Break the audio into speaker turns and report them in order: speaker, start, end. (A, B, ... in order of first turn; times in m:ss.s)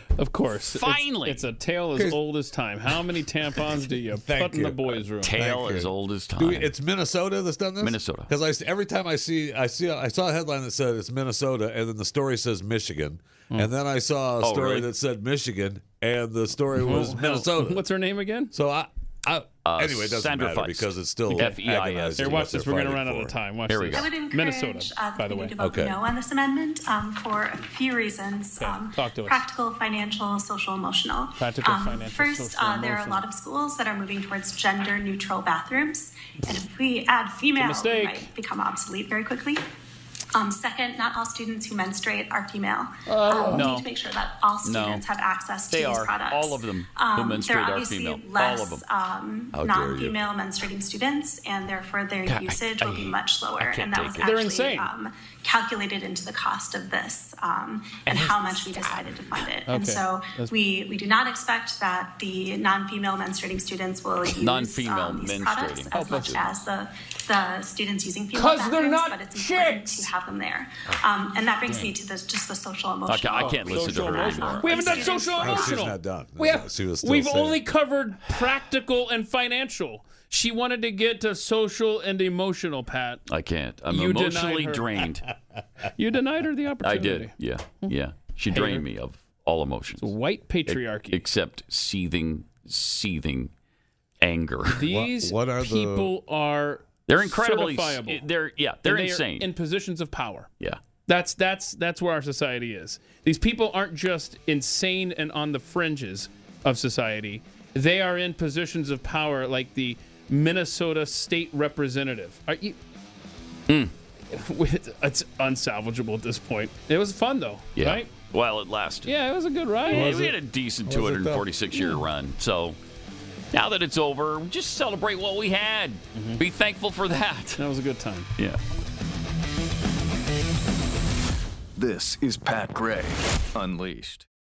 0:00.2-0:05.4 A
0:00.7-0:01.4 B
0:04.1-0:17.8 C
0:05.2-0:06.7 B
0:07.8-0:08.3 B
0:14.4-0:14.9 B
0:16.8-0:18.5 A
0:18.5-0:23.4 C
0:19.6-0:22.5 B
0:22.2-0:25.5 A
0:23.7-0:24.1 B
0:23.9-0:39.6 D
0:25.6-0:26.0 C
0:28.6-0:29.4 A
0:31.4-0:33.2 A
0:37.6-0:38.3 A
0:40.3-1:15.8 D
0:43.0-0:43.8 A
0:43.5-0:43.8 B
0:44.6-0:45.0 B
0:45.7-0:48.8 B
0:49.5-0:50.2 C
0:52.3-0:54.3 B
0:54.2-0:54.9 A
0:59.7-1:00.5 A
1:04.3-1:06.2 B
1:05.9-1:06.4 A
1:08.3-1:10.1 A
1:13.1-1:15.0 B
1:13.4-1:23.2 A
1:15.3-1:17.6 C
1:23.3-1:25.3 B
1:23.9-1:24.9 A
1:26.0-1:27.3 A
1:26.8-1:30.1 B
1:28.5-1:28.8 A
1:30.0-1:31.2 A
1:30.7-1:33.5 B
1:34.2-1:34.8 B
1:34.7-1:38.2 A
1:34.8-1:36.1 C
1:37.1-1:39.5 B
1:38.8-1:40.5 A
1:41.1-1:52.8 A
1:54.3-1:58.1 A
1:57.8-1:59.1 B
1:59.0-2:00.2 A
1:59.9-2:01.4 C
1:59.9-2:02.8 B
2:03.5-2:07.6 B
2:06.1-2:06.4 A
2:07.6-2:08.3 A
2:11.8-2:14.2 E